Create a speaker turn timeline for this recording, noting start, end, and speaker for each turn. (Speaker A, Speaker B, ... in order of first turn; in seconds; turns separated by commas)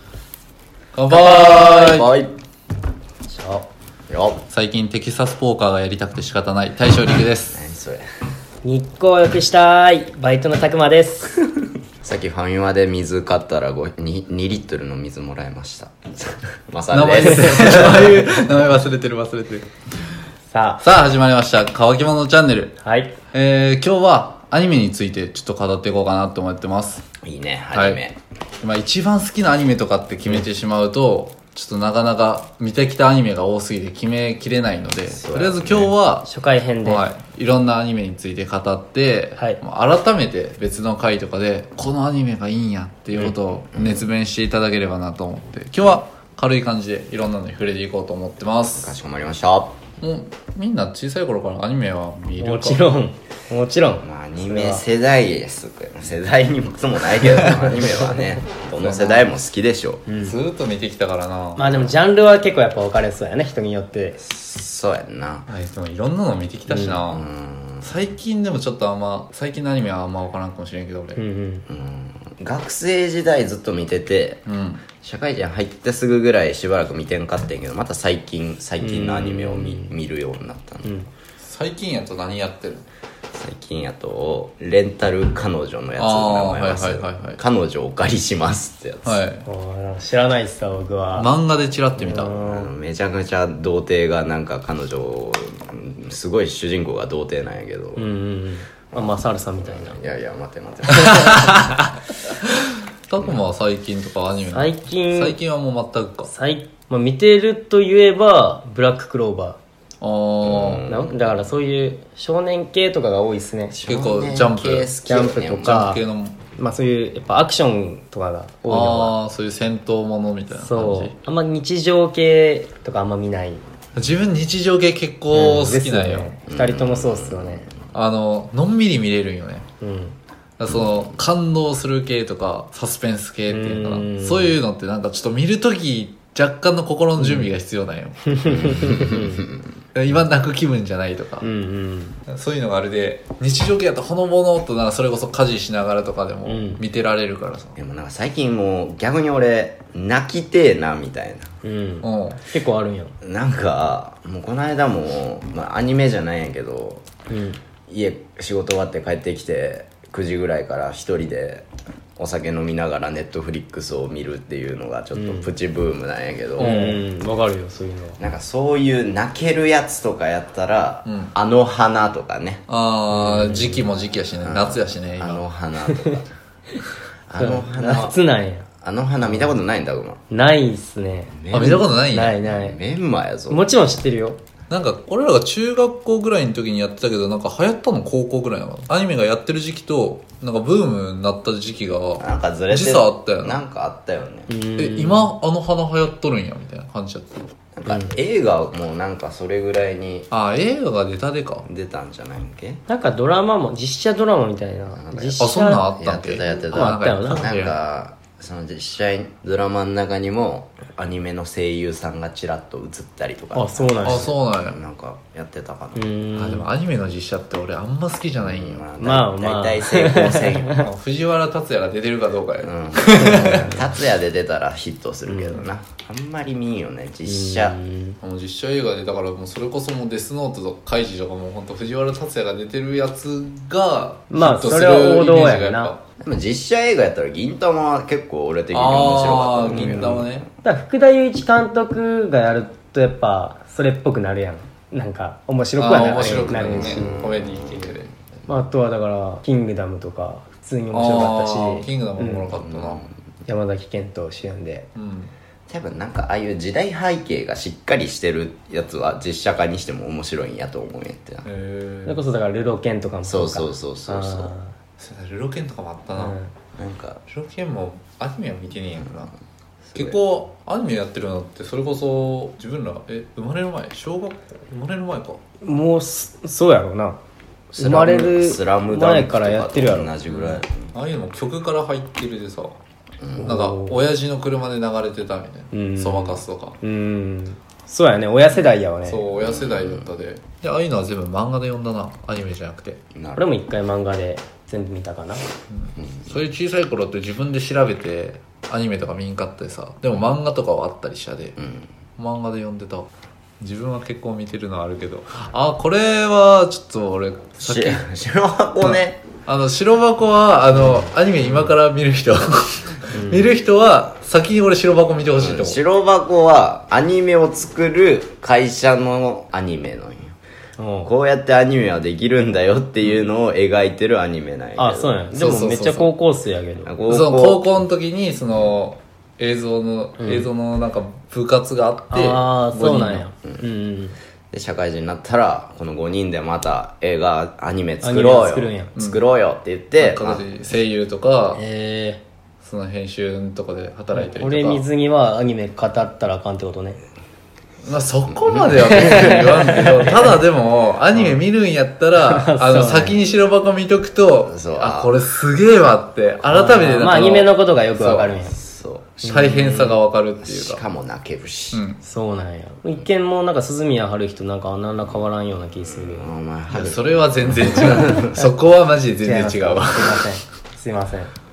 Speaker A: 0.9-2.1, Speaker B: 1.1-2.3, Speaker C: 3.3-3.6, Speaker B: 4.1-4.4, Speaker A: 4.5-7.6, Speaker B: 7.5-8.0, Speaker C: 8.6-11.4, Speaker B: 12.0-18.3, Speaker A: 16.9-19.7, Speaker C: 20.5-20.8, Speaker A: 20.8-22.8, Speaker C: 22.8-23.1, Speaker A: 23.3-27.1, Speaker B: 27.2-28.2, Speaker A: 27.7-28.0, Speaker A: 28.6-36.3, Speaker B: 35.1-35.9, Speaker C: 36.2-37.1, Speaker A: 36.8-49.0, Speaker B: 43.7-44.1, Speaker B: 48.8-49.8, Speaker A: 50.0-52.8, Speaker C: 52.4-54.8, Speaker B: 54.0-60.0, Speaker A: 58.8-59.3, Speaker C: 60.1-60.4, Speaker A: 60.2-61.6, Speaker C: 61.5-64.2, Speaker B: 61.7-61.9, Speaker B: 64.2-65.5, Speaker A: 65.5-67.3, Speaker C: 66.7-67.0, Speaker B: 67.1-67.9, Speaker A: 67.8-71.2, Speaker C: 71.2-71.7, Speaker B: 71.7-74.4, Speaker A: 74.5-74.8, Speaker B: 75.0-80.9, Speaker C: 78.8-79.9, Speaker C: 80.8-81.1, Speaker A: 81.4-82.9, Speaker B: 83.3-89.2, Speaker A: 86.0-87.4, Speaker A: 89.0-89.5, Speaker C: 89.4-91.3, Speaker A: 91.1-92.4, Speaker C: 92.0-92.7, Speaker B: 92.0-98.1, Speaker C: 98.0-100.0, Speaker B: 98.9-101.7, Speaker A: 100.9-101.9, Speaker A: 103.1-106.3, Speaker C: 104.5-105.4, Speaker C: 106.2-109.6, Speaker A: 110.0-110.8, Speaker B: 110.4-111.4, Speaker C: 110.8-113.8, Speaker B: 113.7-115.9, Speaker A: 113.8-114.9, Speaker C: 115.0-116.0, Speaker A: 115.6-116.4, Speaker C: 116.5-119.1, Speaker A: 118.7-121.1, Speaker C: 120.5-123.6, Speaker A: 124.0-126.4, Speaker C: 125.3-127.7, Speaker B: 126.5-127.7, Speaker A: 127.9-129.7, Speaker C: 129.8-130.2, Speaker A: 130.6-138.7, Speaker B: 130.7-131.1, Speaker C: 133.5-134.6, Speaker C: 137.2-137.5, Speaker C: 138.2-139.4, Speaker B: 138.6-139.6, Speaker A: 139.9-141.5, Speaker C: 141.4-142.2, Speaker A: 142.3-147.8, Speaker C: 146.4-146.8, Speaker B: 147.8-151.5, Speaker C: 151.6-153.1, Speaker A: 152.0-152.4, Speaker B: 153.2-157.1, Speaker C: 157.3-157.6, Speaker B: 157.9-166.9, Speaker C: 165.1-165.5, Speaker C: 166.6-168.2, Speaker A: 166.6-167.0, Speaker B: 168.2-172.6, Speaker A: 171.1-171.3, Speaker A: 172.7-175.4, Speaker C: 173.2-173.8, Speaker B: 174.4-176.3, Speaker C: 175.9-176.1, Speaker B: 177.3-178.2, Speaker C: 177.4-178.7, Speaker B: 178.8-180.2, Speaker C: 180.3-182.8, Speaker B: 181.3-183.7, Speaker A: 181.5-182.4, Speaker C: 183.5-184.4, Speaker A: 184.7-193.6, Speaker B: 192.2-194.5, Speaker C: 194.5-195.3, Speaker A: 194.8-197.4, Speaker B: 197.7-200.3, Speaker C: 197.9-198.1, Speaker A: 200.3-201.7, Speaker B: 201.6-202.8, Speaker C: 202.9-205.9, Speaker B: 204.9-205.4, Speaker A: 205.4-207.7, Speaker B: 206.0-216.1, Speaker C: 206.5-207.5, Speaker C: 213.5-214.3, Speaker A: 214.0-214.8, Speaker C: 215.9-216.7, Speaker A: 216.3-218.8, Speaker B: 218.4-220.8, Speaker C: 219.0-220.9, Speaker A: 220.8-223.8, Speaker B: 222.6-227.8, Speaker C: 223.3-223.8, Speaker C: 225.3-225.7, Speaker C: 227.3-228.2, Speaker A: 228.2-236.0, Speaker C: 234.3-235.9, Speaker B: 236.2-240.5, Speaker A: 238.7-240.5, Speaker C: 239.7-247.3, Speaker A: 245.8-248.1, Speaker B: 246.3-247.9, Speaker C: 248.4-252.5, Speaker A: 250.9-253.1, Speaker B: 252.5-253.1, Speaker C: 253.4-254.8, Speaker A: 254.9-255.3, Speaker B: 255.7-261.4, Speaker A: 261.4-262.2, Speaker C: 262.1-264.7, Speaker B: 263.2-264.5, Speaker A: 265.0-266.4, Speaker C: 266.1-266.5, Speaker B: 266.8-267.2, Speaker A: 267.3-269.3, Speaker B: 269.9-270.2, Speaker A: 269.9-275.4, Speaker C: 275.6-277.2, Speaker C: 277.7-280.1, Speaker B: 277.7-280.9, Speaker A: 280.3-282.8, Speaker B: 283.2-283.6, Speaker C: 283.4-284.0, Speaker A: 283.4-286.8, Speaker C: 285.7-289.2, Speaker A: 289.0-293.0, Speaker B: 289.4-290.1, Speaker B: 293.1-293.4, Speaker C: 293.4-295.4, Speaker A: 295.7-301.6, Speaker B: 296.0-296.4, Speaker B: 301.6-301.9, Speaker A: 302.2-303.1, Speaker A: 303.6-308.0, Speaker B: 307.6-309.2, Speaker A: 308.8-315.8, Speaker C: 310.7-311.1, Speaker C: 313.1-313.6, Speaker B: 315.3-320.3, Speaker C: 320.8-321.1, Speaker B: 321.0-325.2, Speaker C: 324.8-326.9, Speaker A: 325.3-326.1, Speaker B: 326.8-327.8, Speaker A: 327.1-333.2, Speaker C: 330.2-330.5, Speaker C: 332.1-334.2, Speaker B: 334.5-340.4, Speaker C: 338.0-338.9, Speaker A: 338.9-339.2, Speaker A: 340.0-341.6, Speaker C: 341.5-342.2, Speaker A: 342.6-344.8, Speaker C: 344.1-347.0, Speaker A: 347.8-358.4, Speaker B: 348.4-349.1, Speaker C: 349.1-350.0, Speaker C: 351.1-351.4, Speaker C: 352.2-353.2, Speaker B: 354.4-355.1, Speaker C: 356.5-358.6, Speaker B: 358.4-359.3, Speaker C: 359.2-360.0, Speaker A: 359.2-360.8, Speaker B: 360.4-361.8, Speaker A: 361.7-362.0, Speaker C: 362.0-366.3, Speaker B: 365.9-368.4, Speaker A: 366.7-370.3, Speaker C: 367.7-368.1, Speaker C: 369.2-371.3